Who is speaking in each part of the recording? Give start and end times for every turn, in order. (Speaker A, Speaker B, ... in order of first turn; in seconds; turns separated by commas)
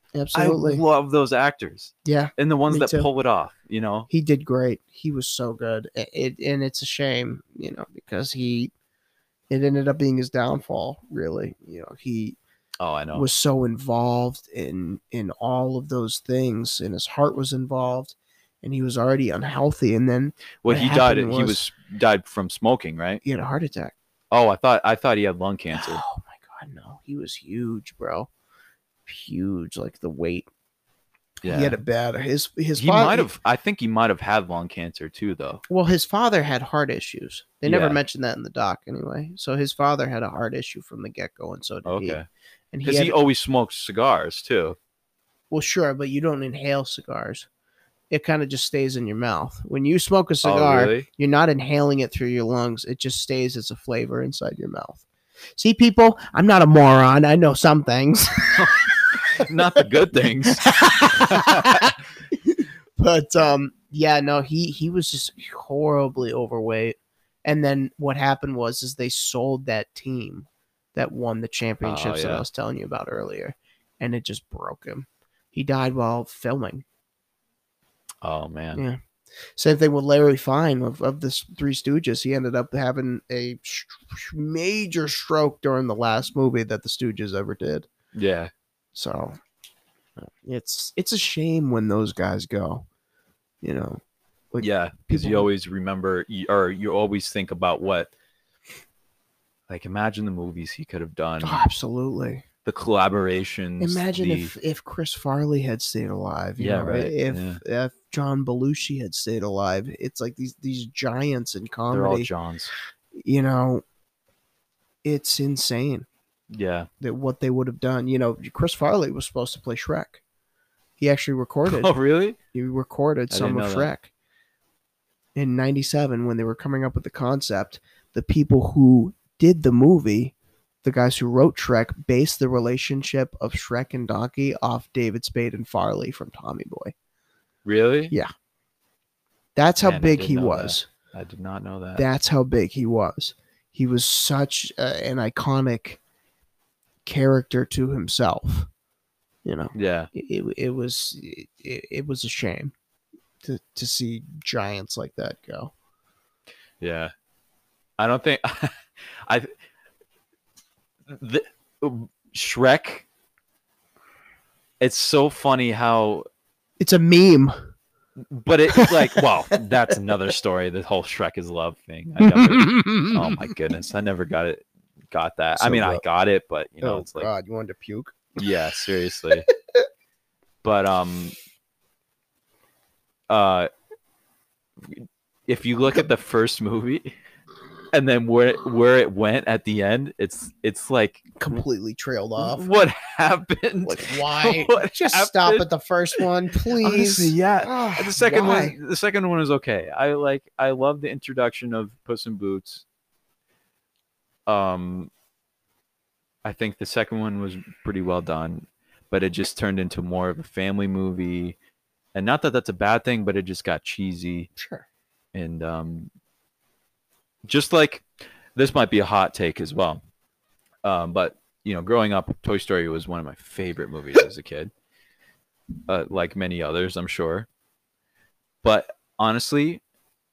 Speaker A: 0.1-0.8, Speaker B: 0.3-4.1, Speaker A: 2.0-3.1, Speaker A: 4.1-8.7, Speaker A: 9.5-12.4, Speaker B: 12.8-13.3, Speaker A: 13.1-21.6, Speaker B: 20.6-23.2, Speaker A: 23.2-23.9, Speaker B: 24.3-26.0, Speaker A: 25.7-28.3, Speaker A: 29.1-30.5, Speaker B: 31.4-31.8, Speaker A: 31.5-33.3, Speaker B: 32.8-35.6, Speaker A: 35.7-42.2, Speaker B: 37.6-38.0, Speaker B: 41.9-42.3, Speaker A: 42.7-43.1, Speaker B: 42.8-44.8, Speaker A: 45.5-47.5, Speaker A: 48.1-55.0, Speaker B: 50.4-51.1, Speaker A: 55.6-76.8, Speaker B: 58.6-61.9, Speaker B: 71.8-72.5, Speaker B: 78.2-78.8, Speaker A: 79.6-87.9, Speaker B: 88.1-88.5, Speaker A: 89.0-89.4, Speaker A: 90.2-92.8, Speaker A: 93.6-94.0, Speaker A: 94.5-95.5, Speaker B: 94.6-98.1, Speaker B: 99.7-101.7, Speaker A: 101.4-102.4, Speaker B: 102.7-104.5, Speaker A: 103.8-112.3, Speaker B: 106.6-107.6, Speaker B: 111.9-112.7, Speaker A: 113.2-113.8, Speaker A: 115.0-116.1, Speaker B: 116.5-116.9, Speaker A: 117.0-120.2, Speaker A: 121.0-121.9, Speaker B: 121.7-122.4, Speaker A: 122.5-124.1, Speaker B: 123.3-123.9, Speaker A: 125.4-136.9, Speaker B: 137.7-138.1, Speaker A: 139.6-140.9, Speaker B: 139.8-142.0, Speaker A: 142.0-146.0, Speaker A: 147.1-148.7, Speaker A: 149.4-152.7, Speaker B: 149.7-150.1, Speaker A: 153.4-155.7, Speaker B: 156.8-157.1, Speaker B: 158.0-159.5, Speaker B: 161.1-163.1, Speaker B: 164.8-166.3, Speaker A: 166.8-167.6, Speaker B: 168.2-177.3, Speaker A: 168.7-169.2, Speaker A: 172.2-173.5, Speaker A: 175.6-176.0, Speaker A: 176.8-178.4, Speaker B: 178.4-179.5, Speaker B: 180.6-181.4, Speaker B: 183.3-183.7, Speaker B: 184.8-187.2, Speaker B: 187.9-191.6, Speaker A: 191.4-192.7, Speaker B: 192.4-202.8, Speaker A: 193.8-198.8, Speaker B: 204.5-205.1, Speaker B: 206.4-211.6, Speaker B: 212.2-214.5, Speaker A: 214.6-214.8, Speaker B: 215.3-216.1, Speaker B: 217.4-220.0, Speaker B: 220.8-224.7, Speaker B: 225.9-227.5, Speaker B: 228.6-229.8